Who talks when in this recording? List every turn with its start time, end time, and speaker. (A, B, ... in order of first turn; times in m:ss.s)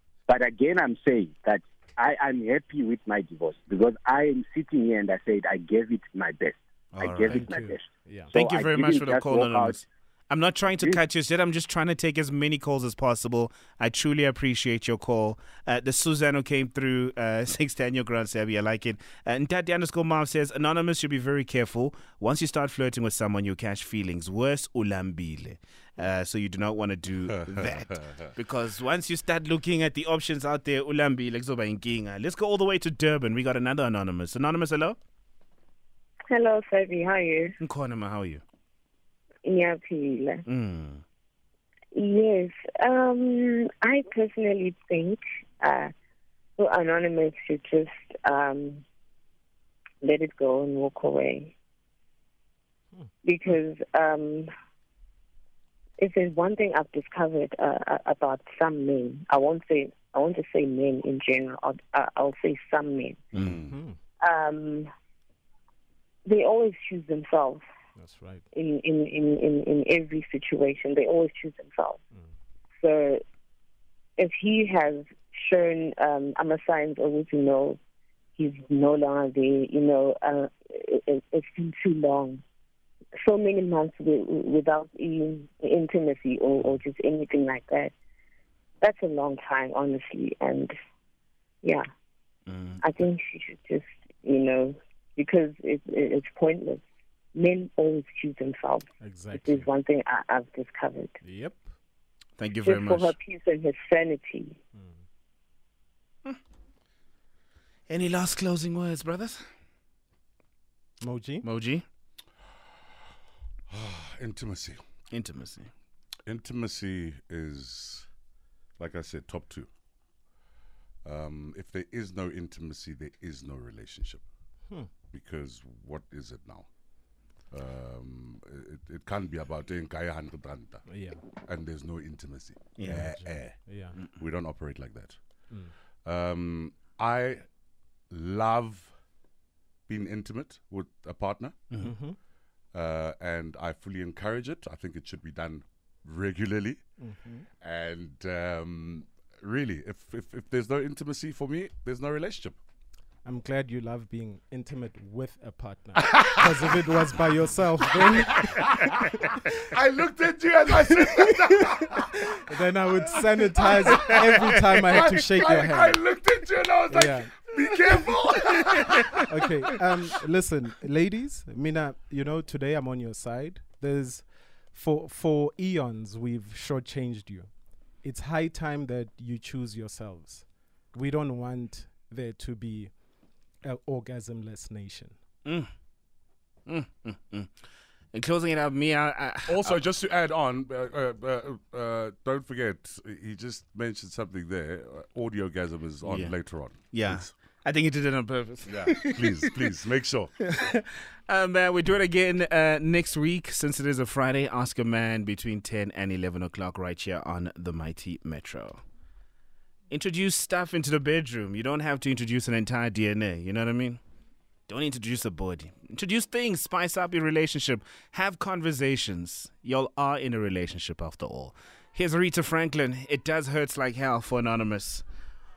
0:00.3-0:09.8 A
0:06.9-0:07.5 B
0:07.3-0:08.3 C
0:08.3-0:35.0 B
0:27.3-0:28.3 D
0:36.3-0:37.6 E
0:37.6-0:38.4 B
0:39.4-0:40.4 E
0:40.5-0:41.0 B
0:41.9-0:45.9 E
0:46.6-0:48.8 E
0:50.0-0:51.6 E
0:53.2-0:54.5 E
0:56.0-1:03.3 E
1:03.3-1:03.6 B
1:03.3-1:03.8 D
1:03.6-1:04.0 C
1:04.2-1:04.9 E
1:06.2-1:07.6 E
1:08.0-1:08.4 C
1:08.5-1:12.0 E
1:12.8-1:13.2 E
1:14.2-1:17.8 E
1:18.4-1:22.4 E
1:23.2-1:27.9 E
1:28.8-1:30.7 E
1:32.5-1:33.0 B
1:32.8-1:36.8 E
1:37.3-1:41.2 E
1:39.0-1:39.7 C
1:41.2-1:41.7 C
1:42.4-1:43.2 B
1:42.6-1:44.6 E
1:44.8-1:45.0 C
1:47.9-1:49.4 B
1:51.0-1:51.5 C
1:51.4-1:51.8 B
1:53.7-1:54.8 D
1:55.1-1:55.7 B
1:56.3-1:58.1 D
1:58.8-1:59.7 D
2:01.0-2:04.2 D
2:05.1-2:06.7 D
2:07.5-2:10.9 D
2:10.9-2:11.2 C
2:11.4-2:15.2 D
2:12.8-2:13.2 B
2:12.9-2:14.0 C
2:16.0-2:17.5 D
2:18.1-2:18.9 D
2:19.9-2:21.6 D
2:21.8-2:22.2 C
2:22.7-2:26.8 D
2:27.0-2:27.5 C
2:27.6-2:32.6 D
2:33.2-2:39.5 C
2:38.4-2:42.5 D
2:40.9-2:46.0 C
2:43.2-2:49.8 D
2:46.9-2:47.4 C
2:49.2-2:57.5 C
2:58.0-3:02.9 C
3:03.6-3:05.2 C
3:05.5-3:05.7 B
3:06.7-3:07.5 B
3:08.1-3:09.8 B
3:09.5-3:17.3 D
3:16.0-3:19.5 B
3:18.7-3:20.4 D
3:20.5-3:28.8 B
3:29.9-3:34.0 B
3:34.7-3:45.0 B